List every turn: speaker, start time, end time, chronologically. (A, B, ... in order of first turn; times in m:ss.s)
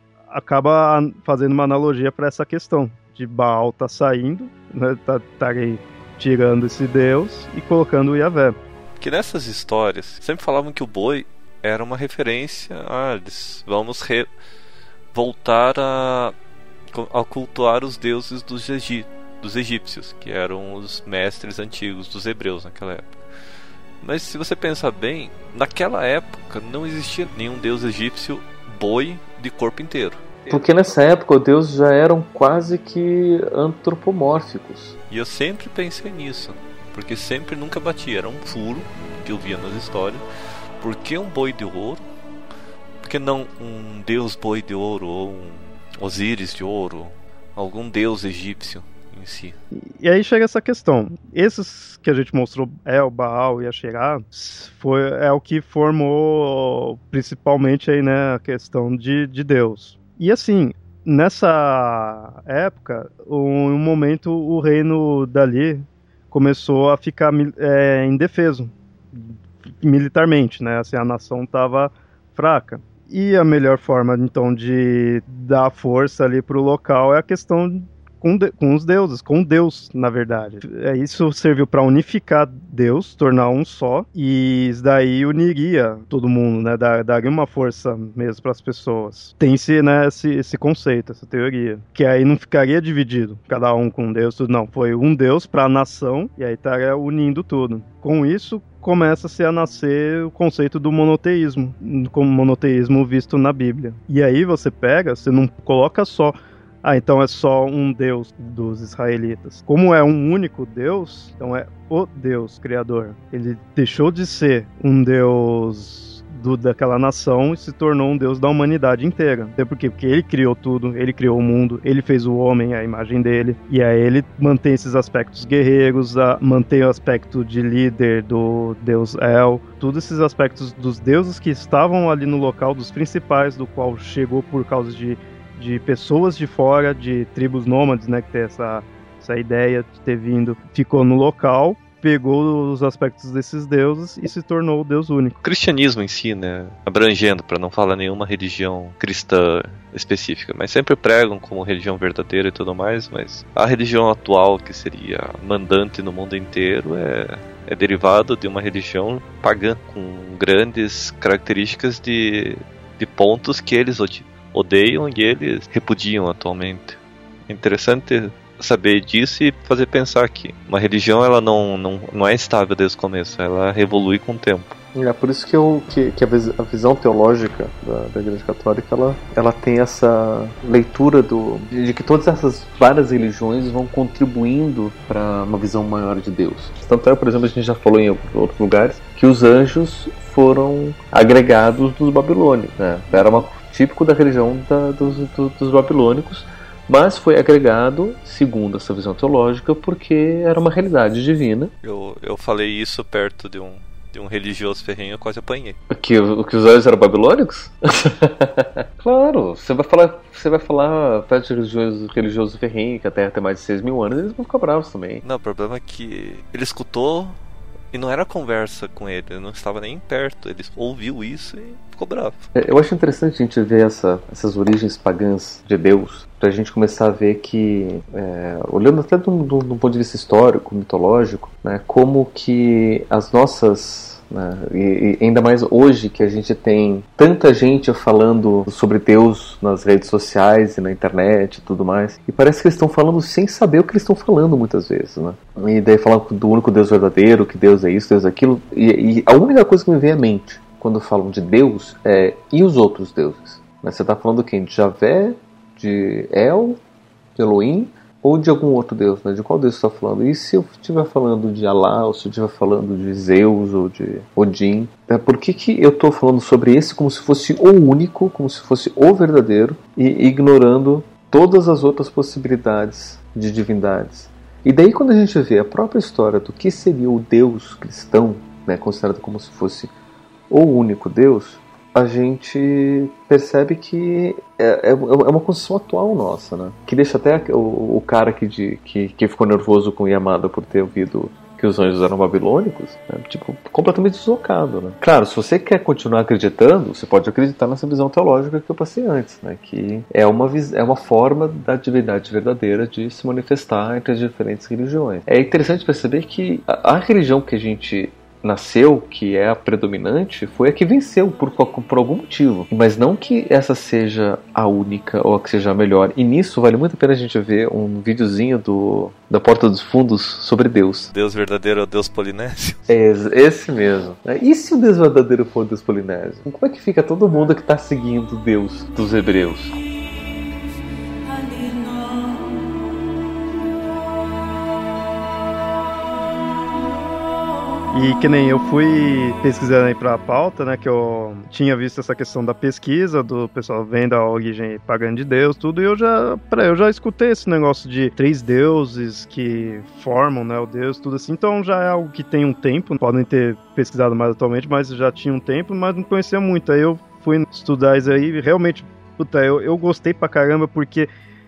0:00.3-0:08.6 A
0:09.0-0:14.3 B
0:15.1-0:16.4 B
0:16.9-0:23.2 B
0:24.0-0:30.6 B
0:30.5-0:35.0 C
0:35.1-0:40.2 B
0:40.8-0:42.0 B
0:43.0-0:49.6 B
0:49.7-2:25.4 A
2:25.4-2:54.8 B
2:55.0-3:21.7 C
3:21.8-3:25.8 B
3:25.9-3:35.2 C
3:35.2-3:37.4 B
3:37.9-3:42.5 B
3:42.6-4:16.8 C
4:17.4-4:39.9 C
4:40.5-5:21.1 C
5:21.1-5:22.8 B
5:22.9-5:29.7 C
5:37.9-6:01.1 A